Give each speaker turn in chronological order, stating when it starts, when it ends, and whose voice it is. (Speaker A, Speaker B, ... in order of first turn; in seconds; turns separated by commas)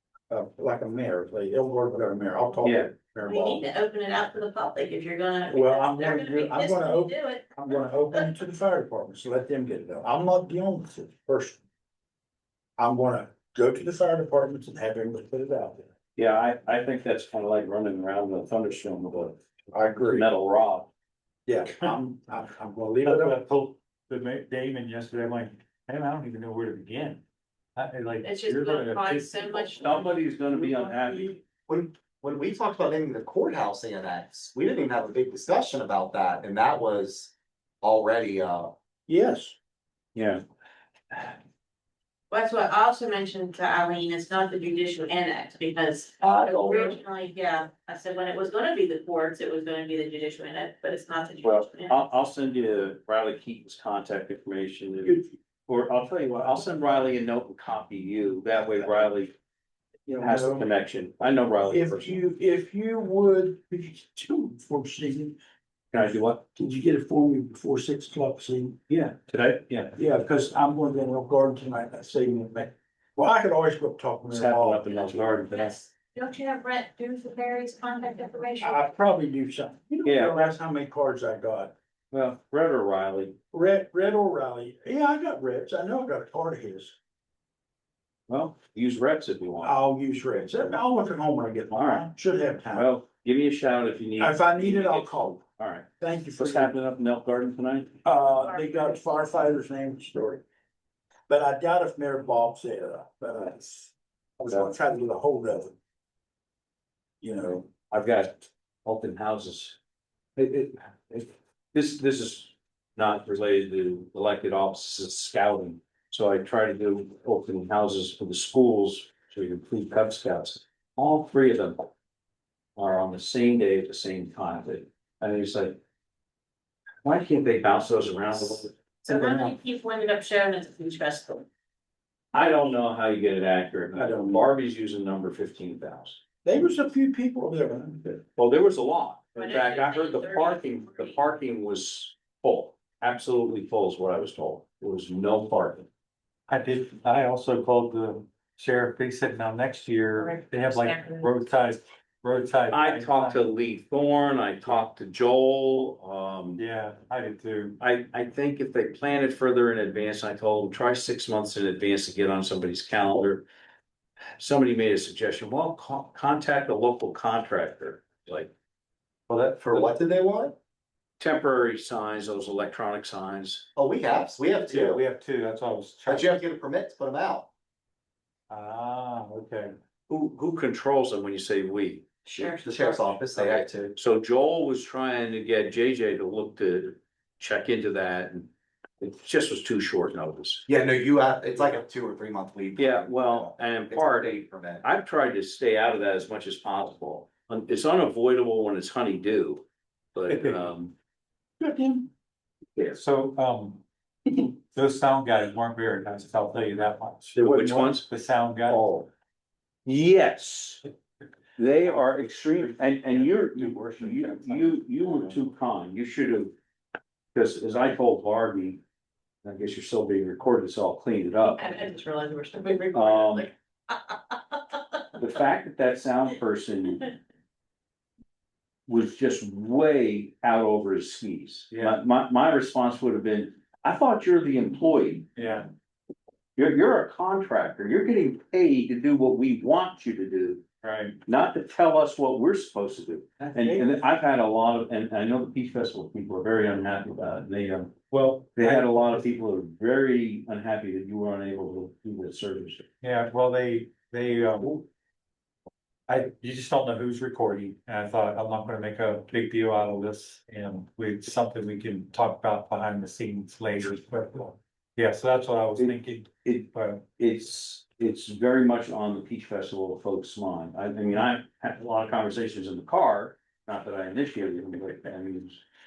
Speaker A: 0.3-3.7, Speaker B: 2.6-2.9, Speaker C: 3.2-8.4, Speaker A: 5.5-11.6, Speaker A: 12.8-15.9, Speaker B: 16.2-19.4, Speaker A: 19.7-20.3, Speaker B: 20.0-20.9, Speaker A: 21.5-23.5, Speaker D: 23.0-27.2, Speaker D: 27.8-30.1, Speaker C: 28.2-29.9, Speaker B: 29.6-31.4, Speaker E: 31.7-38.7, Speaker A: 39.1-39.6, Speaker B: 40.1-40.4, Speaker C: 42.3-52.0, Speaker E: 46.2-47.0, Speaker B: 51.4-59.3, Speaker A: 55.0-55.4, Speaker A: 58.6-59.1, Speaker A: 60.1-60.7, Speaker B: 60.2-62.2, Speaker A: 61.6-65.4, Speaker B: 65.9-66.4, Speaker A: 66.0-68.8, Speaker B: 68.9-69.9, Speaker A: 69.9-75.3, Speaker B: 74.3-75.8, Speaker C: 75.3-78.9, Speaker A: 78.6-81.7, Speaker B: 80.0-80.5, Speaker B: 82.1-83.4, Speaker A: 83.5-87.0, Speaker B: 88.3-89.8, Speaker A: 89.6-92.9, Speaker B: 91.7-92.1, Speaker B: 92.7-98.0, Speaker A: 94.2-95.4, Speaker A: 96.0-96.8, Speaker A: 98.0-100.4, Speaker C: 98.3-99.0, Speaker A: 101.3-105.8, Speaker A: 107.2-107.7, Speaker B: 107.9-109.8, Speaker B: 110.4-121.9, Speaker B: 122.8-125.8, Speaker B: 127.0-128.8, Speaker C: 129.1-131.4, Speaker A: 129.1-129.5, Speaker B: 132.3-136.2, Speaker A: 133.9-134.5, Speaker A: 136.4-138.2, Speaker B: 138.4-145.9, Speaker C: 139.3-141.3, Speaker D: 146.5-153.5, Speaker C: 150.2-151.4, Speaker B: 152.7-156.6, Speaker D: 156.6-157.8, Speaker B: 157.8-163.4, Speaker B: 164.4-168.5, Speaker D: 169.3-169.8, Speaker E: 169.5-170.6, Speaker B: 171.2-173.7, Speaker E: 173.8-175.0, Speaker D: 174.6-176.4, Speaker E: 176.1-177.5, Speaker D: 178.5-179.7, Speaker B: 180.1-182.1, Speaker C: 182.2-183.1, Speaker E: 182.4-183.9, Speaker B: 183.3-188.5, Speaker B: 189.0-190.7, Speaker E: 190.7-194.8, Speaker B: 192.8-194.3, Speaker B: 194.8-200.9, Speaker D: 200.3-200.7, Speaker A: 201.6-202.1, Speaker B: 202.8-203.0, Speaker D: 203.0-203.8, Speaker D: 204.4-208.9, Speaker B: 207.3-208.1, Speaker B: 208.7-209.1, Speaker B: 209.9-210.9, Speaker B: 211.6-216.5, Speaker D: 212.2-214.6, Speaker B: 217.3-218.8, Speaker B: 219.4-221.6, Speaker C: 221.4-225.3, Speaker B: 222.9-223.5, Speaker B: 225.2-227.2, Speaker B: 228.9-235.3, Speaker D: 231.7-232.0, Speaker D: 235.3-235.7, Speaker B: 236.6-240.6, Speaker D: 240.8-241.2, Speaker B: 241.3-248.0, Speaker A: 243.4-244.0, Speaker D: 248.1-249.3, Speaker B: 248.5-252.9, Speaker D: 253.0-254.9, Speaker D: 256.1-267.1, Speaker B: 265.8-275.6